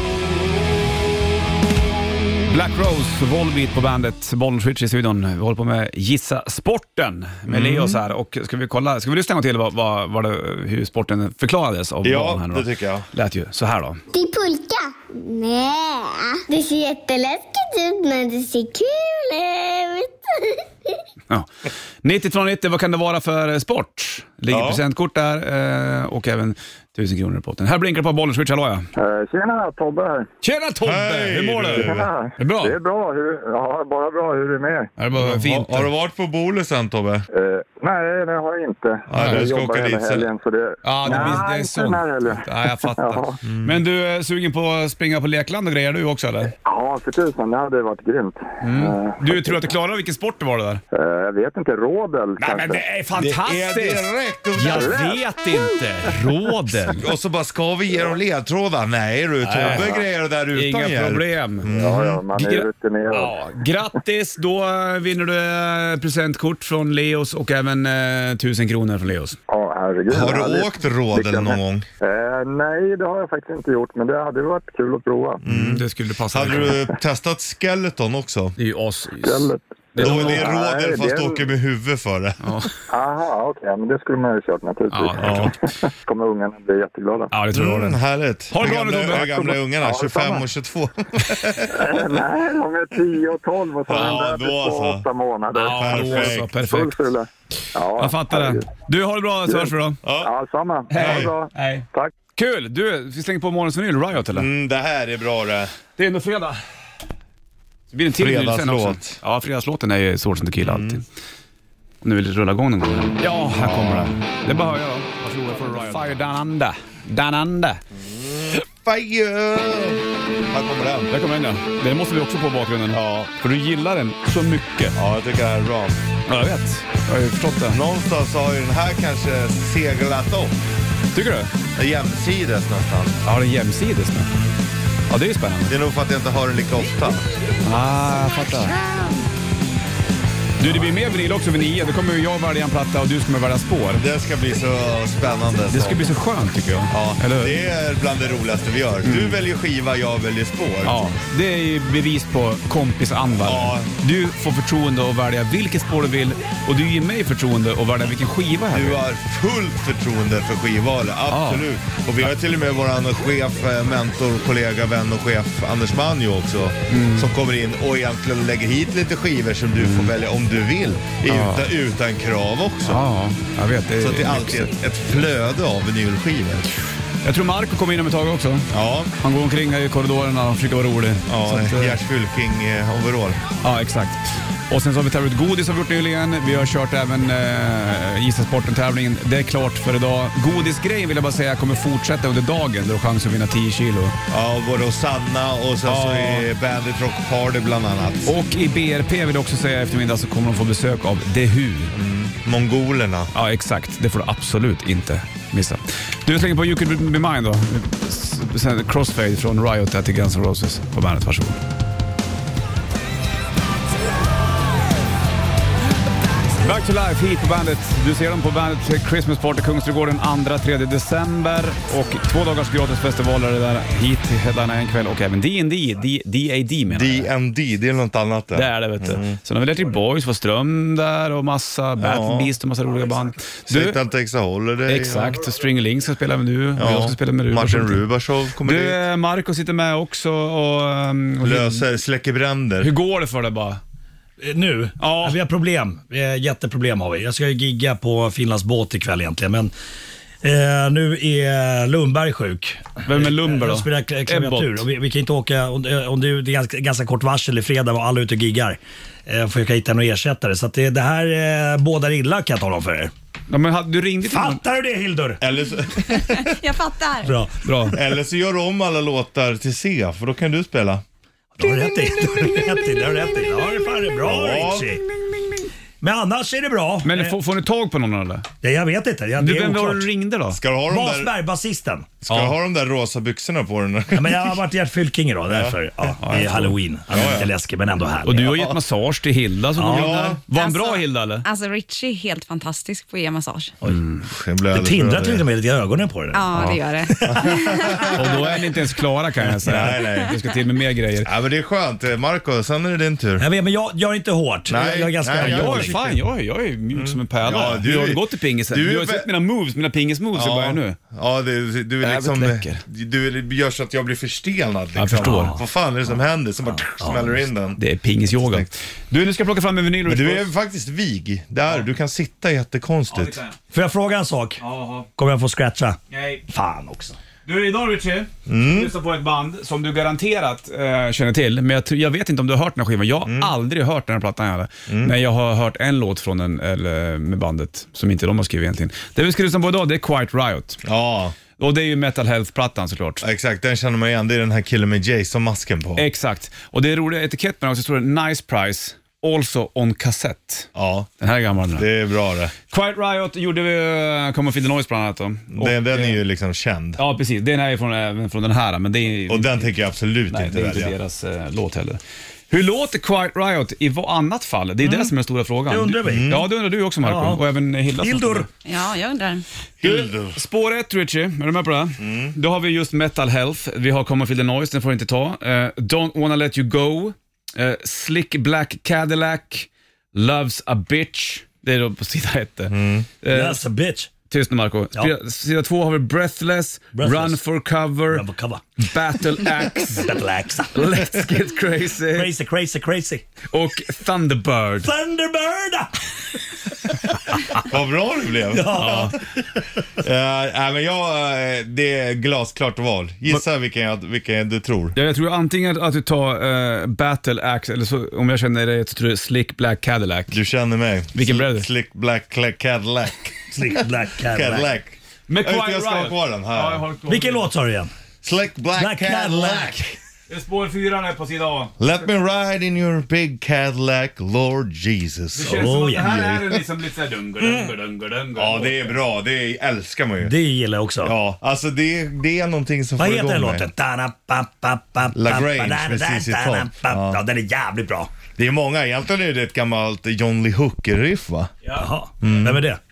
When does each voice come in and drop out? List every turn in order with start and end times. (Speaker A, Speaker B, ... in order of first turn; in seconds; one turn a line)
Speaker A: 2.5-14.0
Speaker B: 7.5-8.0
Speaker B: 12.0-13.1
Speaker C: 14.1-21.0
Speaker A: 21.3-28.9
Speaker B: 24.5-24.8
Speaker D: 29.0-30.3
Speaker A: 30.4-32.8
Speaker B: 30.8-32.1
Speaker D: 31.8-34.9
Speaker A: 35.0-35.9
Speaker B: 35.2-37.3
Speaker D: 37.3-43.4
Speaker B: 39.1-40.3
Speaker A: 39.1-39.4
Speaker A: 40.8-46.5
Speaker B: 43.5-43.8
Speaker D: 46.6-49.6
Speaker A: 48.6-50.8
Speaker D: 50.9-52.9
Speaker A: 52.4-57.1
Speaker B: 53.1-55.0
Speaker D: 54.7-55.6
Speaker B: 56.9-62.2
Speaker A: 59.4-60.0
Speaker A: 60.5-61.7
Speaker D: 61.7-63.4
Speaker A: 62.3-69.4
Speaker D: 69.5-75.4
Speaker B: 70.1-71.9
Speaker A: 75.4-76.8
Speaker B: 75.4-78.5
Speaker A: 78.6-80.5
Speaker D: 79.2-81.5
Speaker B: 80.0-82.4
Speaker A: 82.4-82.8
Speaker D: 82.9-87.3
Speaker A: 84.9-85.5
Speaker B: 85.2-85.5
Speaker A: 87.3-88.0
Speaker B: 87.5-92.0
Speaker A: 88.5-89.6
Speaker D: 89.1-90.4
Speaker D: 91.7-98.7
Speaker B: 93.9-95.0
Speaker A: 95.5-97.1
Speaker B: 95.7-96.5
Speaker A: 98.0-100.0
Speaker D: 99.5-102.1
Speaker B: 100.0-100.3
Speaker A: 100.9-101.8
Speaker B: 101.0-101.3
Speaker A: 102.4-104.5
Speaker B: 104.3-105.7
Speaker A: 106.0-106.6
Speaker A: 107.9-111.0
Speaker B: 108.2-109.2
Speaker B: 110.6-111.0
Speaker A: 112.0-117.8
Speaker B: 113.5-114.1
Speaker B: 118.0-121.1
Speaker A: 121.1-125.0
Speaker B: 122.9-123.3
Speaker B: 125.0-126.0
Speaker A: 126.3-127.8
Speaker B: 127.7-130.6
Speaker A: 131.1-131.5
Speaker B: 131.8-133.2
Speaker A: 133.2-134.3
Speaker A: 135.1-135.8
Speaker B: 135.7-137.2
Speaker A: 137.6-138.8
Speaker A: 140.6-144.0
Speaker B: 143.9-146.1
Speaker A: 145.7-147.6
Speaker B: 146.9-151.1
Speaker A: 149.1-149.4
Speaker A: 150.8-159.0
Speaker B: 153.4-153.9
Speaker B: 158.7-173.1
Speaker A: 161.3-161.7
Speaker A: 166.9-167.3
Speaker A: 169.8-170.1
Speaker A: 171.3-171.7
Speaker A: 172.8-174.7
Speaker B: 174.0-176.7
Speaker A: 177.2-182.0
Speaker B: 178.7-179.1
Speaker B: 181.3-183.4
Speaker A: 183.6-194.2
Speaker B: 194.3-198.3
Speaker A: 195.8-196.5
Speaker A: 198.3-201.9
Speaker B: 201.9-203.3
Speaker A: 203.3-211.6
Speaker A: 216.6-227.3
Speaker B: 226.9-229.4
Speaker A: 228.5-234.0
Speaker B: 232.0-232.5
Speaker B: 233.7-235.4
Speaker A: 234.9-238.0
Speaker B: 236.8-239.0
Speaker A: 238.6-241.9
Speaker B: 241.4-242.9
Speaker A: 242.8-243.8
Speaker E: 244.4-249.7
Speaker A: 245.0-245.4
Speaker E: 250.4-263.1
Speaker A: 253.1-254.9
Speaker A: 263.5-264.6
Speaker E: 264.2-265.4
Speaker B: 265.4-266.6
Speaker F: 266.1-267.3
Speaker E: 267.2-267.5
Speaker A: 267.6-267.9
Speaker B: 267.9-271.0
Speaker E: 271.6-275.1
Speaker B: 274.2-275.0
Speaker E: 276.0-277.4
Speaker A: 277.0-278.5
Speaker E: 278.6-280.1
Speaker A: 279.4-280.6
Speaker B: 280.5-281.3
Speaker E: 280.9-282.2
Speaker B: 282.2-284.6
Speaker A: 282.3-282.5
Speaker E: 284.1-288.5
Speaker B: 285.5-285.7
Speaker A: 286.2-287.5
Speaker B: 287.1-287.4
Speaker A: 288.2-291.5
Speaker B: 288.4-288.8
Speaker E: 289.8-290.3
Speaker B: 289.8-290.4
Speaker F: 290.5-293.7
Speaker B: 294.2-295.4
Speaker E: 294.7-298.1
Speaker F: 296.3-298.1
Speaker B: 297.3-298.4
Speaker A: 298.1-301.3
Speaker E: 299.6-300.0
Speaker B: 299.6-300.4
Speaker B: 301.2-303.4
Speaker E: 303.4-306.2
Speaker B: 304.7-306.0
Speaker A: 305.3-311.0
Speaker B: 306.9-309.3
Speaker B: 310.3-317.8
Speaker A: 312.0-312.8
Speaker A: 314.9-315.6
Speaker E: 315.2-315.6
Speaker E: 317.0-317.4
Speaker A: 317.8-320.5
Speaker B: 318.4-318.7
Speaker B: 320.1-323.4
Speaker A: 323.1-323.6
Speaker E: 323.7-324.6
Speaker A: 324.6-325.1
Speaker E: 325.1-327.2
Speaker A: 326.1-326.4
Speaker A: 327.4-340.8
Speaker B: 328.5-328.9
Speaker B: 333.2-333.5
Speaker B: 334.9-335.2
Speaker B: 340.8-341.4
Speaker A: 341.6-343.2
Speaker B: 343.2-346.1
Speaker A: 346.0-350.7
Speaker B: 350.8-351.1
Speaker A: 351.2-351.9
Speaker B: 351.8-352.5
Speaker A: 352.7-356.2
Speaker B: 355.5-357.0
Speaker A: 357.0-359.7
Speaker B: 359.3-360.9
Speaker A: 360.3-368.5
Speaker E: 365.7-366.5
Speaker B: 366.1-366.4
Speaker E: 367.0-367.4
Speaker E: 368.0-368.5
Speaker F: 368.6-369.4
Speaker B: 369.8-370.4
Speaker A: 369.8-383.6
Speaker B: 372.0-372.4
Speaker B: 382.7-383.1
Speaker E: 383.3-384.1
Speaker A: 384.3-388.3
Speaker E: 386.9-387.4
Speaker E: 388.1-388.6
Speaker A: 388.8-390.1
Speaker E: 389.9-391.1
Speaker A: 390.7-392.3
Speaker E: 392.1-393.3
Speaker A: 393.5-394.9
Speaker E: 394.8-395.9
Speaker B: 397.6-399.2
Speaker E: 398.5-399.2
Speaker B: 400.0-405.0
Speaker A: 404.9-410.4
Speaker B: 410.3-413.4
Speaker A: 411.1-411.7
Speaker E: 413.5-414.7
Speaker B: 414.3-416.9
Speaker A: 415.3-417.5
Speaker E: 417.1-417.9
Speaker B: 418.2-419.8
Speaker E: 418.8-419.9
Speaker A: 420.3-421.8
Speaker B: 421.8-426.3
Speaker A: 425.3-428.9
Speaker E: 425.4-426.2
Speaker B: 428.4-430.3
Speaker E: 430.2-431.2
Speaker B: 431.0-433.7
Speaker E: 433.0-438.1
Speaker B: 435.1-437.2
Speaker B: 438.4-441.5
Speaker E: 441.7-442.8
Speaker B: 442.2-442.6